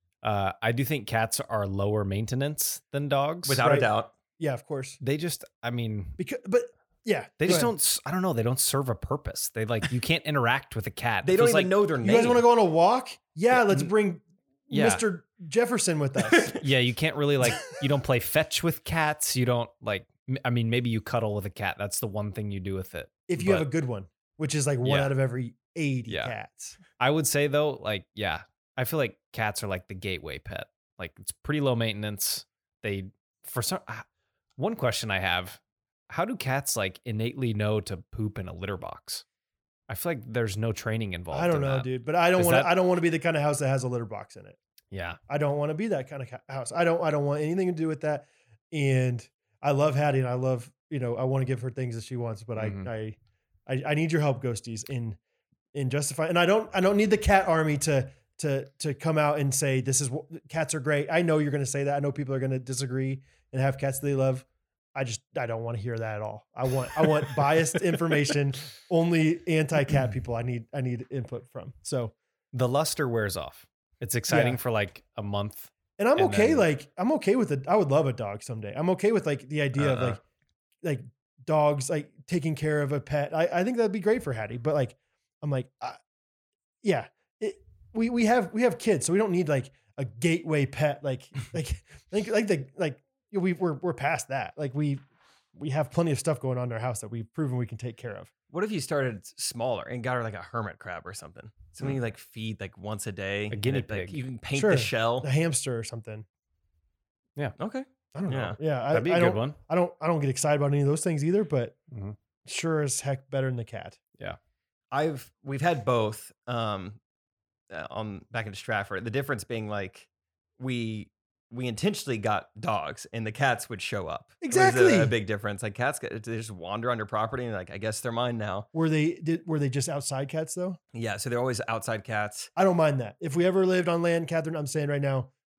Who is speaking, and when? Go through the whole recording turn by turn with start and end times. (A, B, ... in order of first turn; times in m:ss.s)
0:00.2-0:03.6 A
0:03.4-0:04.1 B
0:03.6-0:05.0 C
0:05.0-0:06.2 A
0:06.2-0:07.7 C
0:07.4-0:11.7 A
0:11.2-0:12.4 B
0:12.0-0:16.6 C
0:14.7-0:15.0 A
0:16.6-0:23.7 A
0:23.3-0:26.8 C
0:24.8-0:25.2 A
0:26.1-0:26.3 A
0:27.0-0:34.0 A
0:34.6-0:39.2 A
0:39.9-0:42.7 A
0:41.3-0:44.6 C
0:44.9-0:45.2 A
0:45.3-0:55.2 C
0:52.6-0:52.9 A
0:55.7-1:12.1 C
1:12.5-1:16.6 A
1:14.3-1:14.6 C
1:16.0-1:20.2 C
1:19.8-1:20.2 A
1:20.8-1:26.0 C
1:26.8-1:35.0 C
1:35.5-1:38.3 C
1:38.5-1:45.3 B
1:43.5-1:44.2 A
1:44.5-1:46.2 C
1:47.6-1:48.6 B
1:48.1-1:51.8 C
1:48.9-1:49.6 A
1:51.9-1:52.2 A
1:52.4-1:54.0 C
1:54.9-1:57.0 B
1:57.7-2:00.1 B
2:00.6-2:08.7 B
2:04.4-2:05.1 C
2:08.7-2:10.8 C
2:10.9-2:12.5 B
2:12.6-2:15.3 C